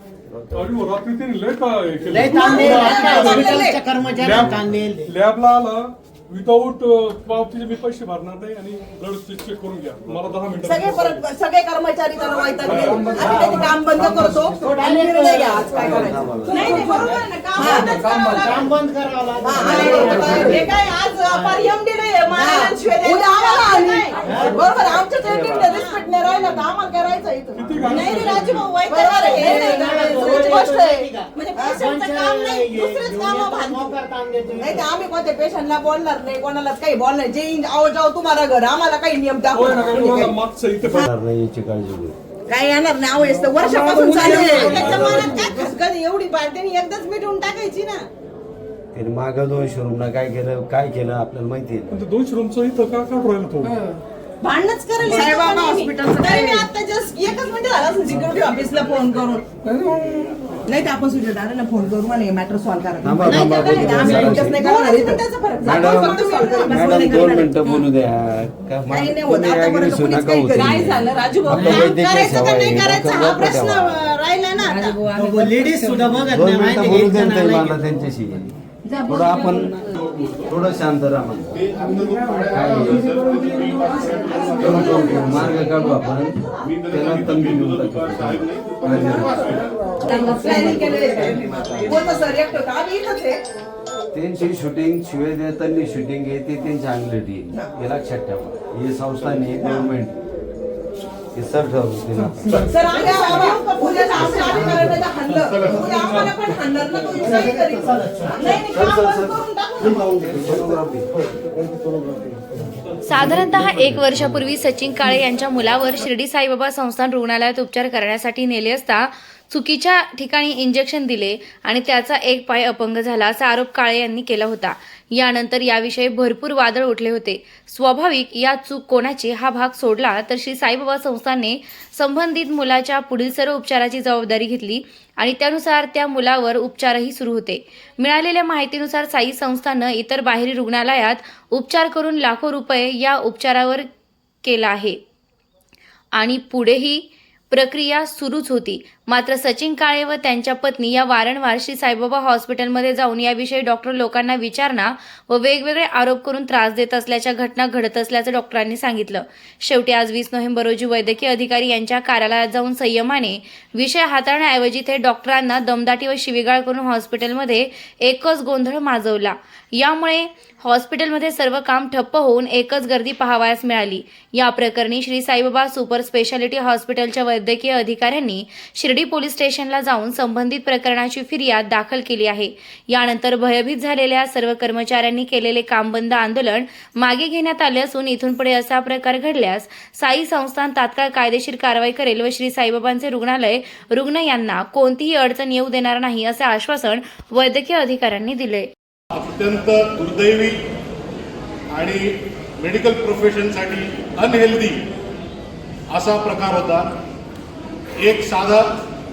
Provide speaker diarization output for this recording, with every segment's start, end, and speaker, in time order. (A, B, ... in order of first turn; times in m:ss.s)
0:00.3-0:00.7 A
0:00.5-0:03.5 B
0:02.1-0:05.1 C
0:02.2-0:03.8 D
0:04.0-0:04.8 A
0:04.2-0:11.2 B
0:10.6-0:18.7 D
0:12.6-0:14.5 B
0:12.8-0:13.6 C
0:14.5-0:21.8 C
0:15.8-0:17.0 A
0:19.4-0:33.9 D
0:19.7-0:20.6 A
0:24.1-0:24.9 C
0:25.2-0:25.8 A
0:27.5-0:28.7 B
0:28.9-0:34.8 C
0:34.6-0:40.4 D
0:39.5-0:41.1 B
0:40.8-0:42.1 A
0:42.5-0:48.0 D
0:43.6-0:45.5 B
0:48.9-0:52.0 A
0:51.9-0:53.7 B
0:54.4-1:07.7 D
1:03.0-1:04.6 A
1:05.6-1:13.9 A
1:08.9-1:15.0 D
1:15.1-1:17.8 C
1:16.3-1:19.8 A
1:20.0-1:20.4 E
1:20.4-1:21.6 A
1:21.5-1:25.7 E
1:22.5-1:23.1 A
1:24.6-1:32.0 A
1:26.6-1:29.7 E
1:30.0-1:33.4 D
1:34.1-1:40.2 A
1:41.3-1:42.6 A
1:42.5-1:50.0 D
1:48.7-1:51.1 A
1:52.0-1:52.2 A
1:53.0-2:23.9 F
1:53.3-1:54.0 A
2:24.4-2:25.0 F
2:26.2-3:18.7 F
3:19.1-3:20.6 E
3:21.7-3:24.8 E
3:25.9-3:26.9 E
3:28.0-3:28.7 E